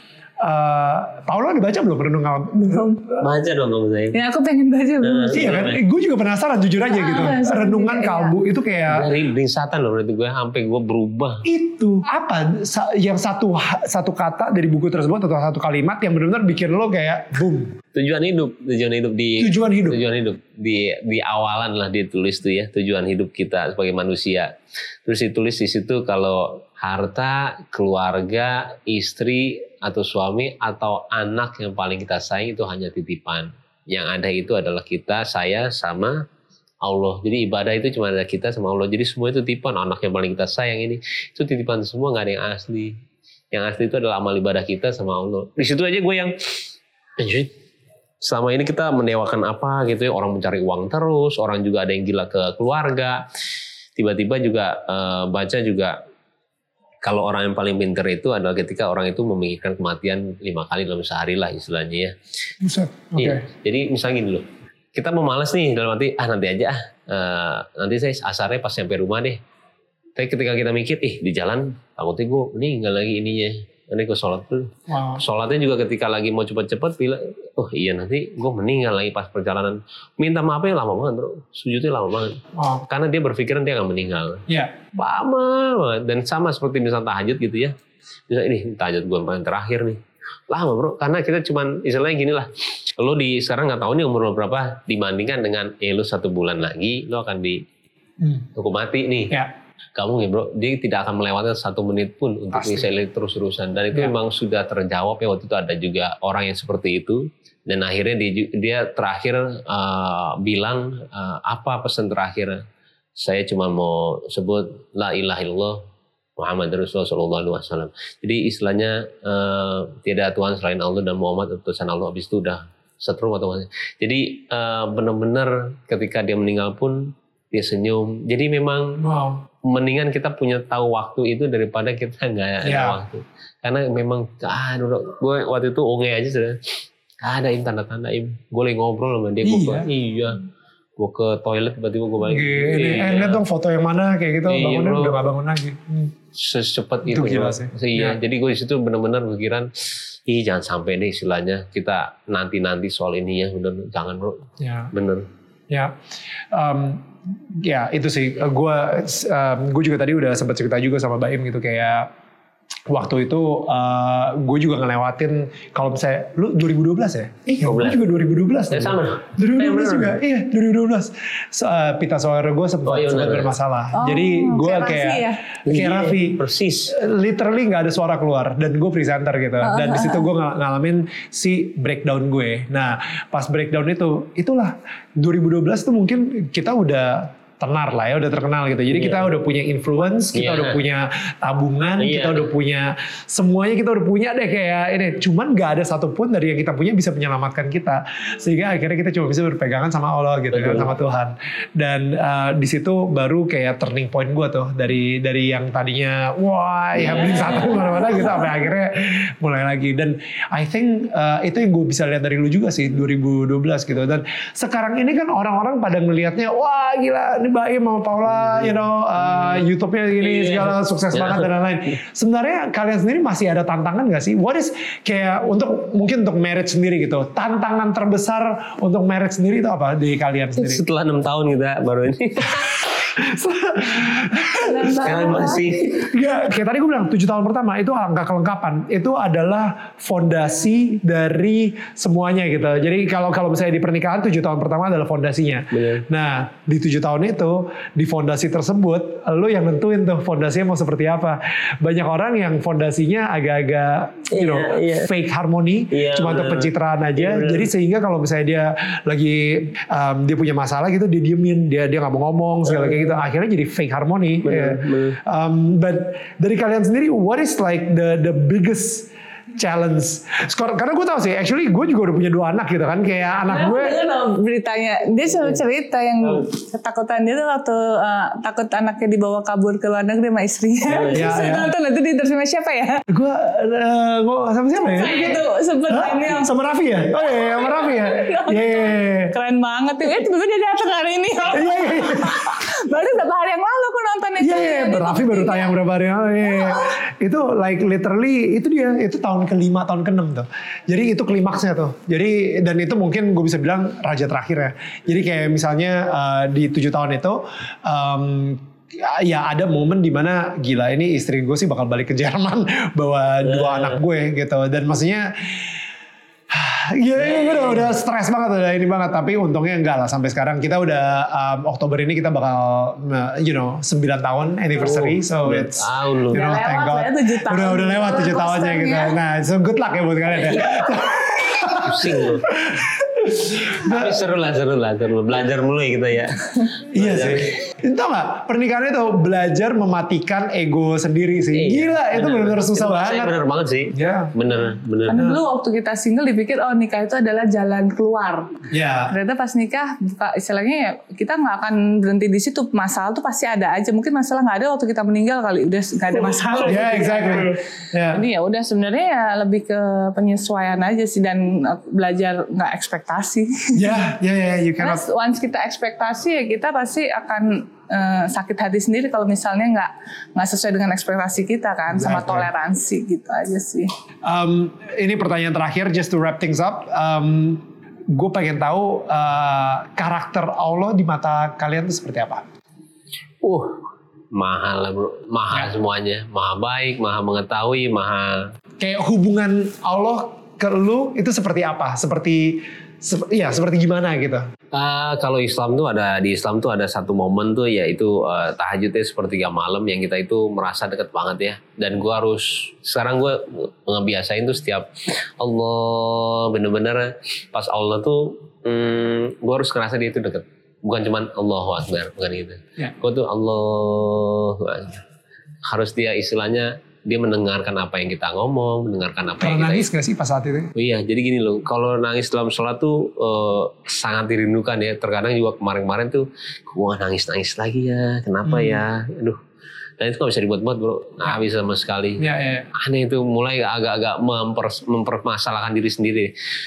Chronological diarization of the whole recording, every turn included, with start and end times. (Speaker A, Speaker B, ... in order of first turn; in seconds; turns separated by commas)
Speaker A: 0.4-3.0, Speaker B: 2.7-3.1, Speaker C: 3.2-4.2, Speaker B: 4.1-5.5, Speaker C: 5.0-5.8, Speaker A: 5.3-9.1, Speaker B: 6.9-8.4, Speaker C: 8.9-11.4, Speaker A: 11.4-17.8, Speaker C: 17.9-24.5, Speaker A: 19.4-20.0, Speaker C: 25.1-36.2, Speaker C: 36.8-43.0, Speaker C: 43.5-46.4, Speaker C: 47.2-47.5, Speaker C: 48.2-53.2, Speaker C: 54.0-56.0, Speaker C: 57.0-62.2, Speaker A: 62.6-63.5, Speaker C: 63.2-69.4, Speaker C: 70.2-84.4, Speaker A: 74.9-75.2, Speaker A: 82.5-82.8, Speaker C: 85.0-87.8, Speaker C: 88.3-97.7, Speaker A: 98.2-98.5, Speaker C: 98.5-99.4, Speaker C: 100.0-112.6, Speaker A: 102.5-102.9, Speaker C: 113.2-115.9, Speaker C: 116.4-129.0, Speaker A: 129.0-129.4, Speaker C: 129.6-136.7, Speaker A: 132.6-133.0, Speaker C: 137.2-140.4, Speaker A: 139.4-139.9, Speaker C: 141.0-143.4, Speaker A: 142.3-146.1, Speaker C: 144.5-145.2, Speaker C: 146.3-155.3, Speaker A: 147.1-148.2, Speaker A: 154.6-154.9, Speaker A: 156.5-162.1, Speaker A: 162.9-230.8, Speaker C: 167.6-168.0, Speaker C: 168.7-170.2, Speaker C: 172.9-173.6, Speaker B: 173.9-175.4, Speaker C: 175.7-176.9, Speaker B: 179.6-180.3, Speaker C: 188.9-189.3, Speaker C: 190.3-190.8, Speaker C: 192.0-192.5, Speaker C: 200.5-200.9, Speaker C: 207.0-207.4, Speaker B: 207.6-208.0, Speaker C: 218.6-219.7, Speaker C: 220.2-221.5, Speaker C: 230.6-232.9, Speaker A: 233.1-235.4, Speaker B: 234.5-235.7, Speaker C: 235.0-236.1, Speaker A: 236.0-274.0, Speaker C: 245.7-246.1, Speaker C: 254.3-255.1, Speaker C: 255.9-257.7, Speaker C: 262.7-263.1, Speaker C: 264.4-265.2, Speaker B: 273.5-283.1, Speaker C: 280.9-281.4, Speaker A: 281.1-281.7, Speaker A: 283.1-285.4, Speaker B: 284.7-286.5, Speaker A: 285.9-289.3, Speaker B: 287.1-295.8, Speaker A: 291.5-292.6, Speaker A: 294.4-315.6, Speaker B: 296.4-296.9, Speaker C: 313.4-314.0, Speaker A: 316.5-334.2, Speaker C: 317.2-317.9, Speaker C: 324.8-326.4, Speaker B: 326.3-329.2, Speaker C: 331.8-332.5, Speaker C: 333.7-337.5, Speaker A: 336.9-343.3, Speaker C: 341.5-345.2, Speaker A: 343.9-344.3, Speaker B: 345.1-357.5, Speaker A: 345.1-345.4, Speaker A: 348.7-349.1, Speaker C: 356.5-357.6, Speaker A: 356.6-358.2, Speaker B: 358.1-364.1, Speaker A: 363.7-365.0, Speaker B: 364.8-373.9, Speaker A: 371.9-372.5, Speaker A: 374.2-382.4, Speaker C: 383.4-383.8, Speaker C: 384.3-388.5, Speaker A: 388.8-394.5, Speaker C: 394.7-415.0, Speaker C: 415.6-419.9, Speaker A: 419.4-420.7, Speaker C: 420.8-429.4, Speaker A: 428.4-428.8, Speaker C: 430.0-432.2, Speaker A: 432.2-432.7, Speaker C: 432.7-436.3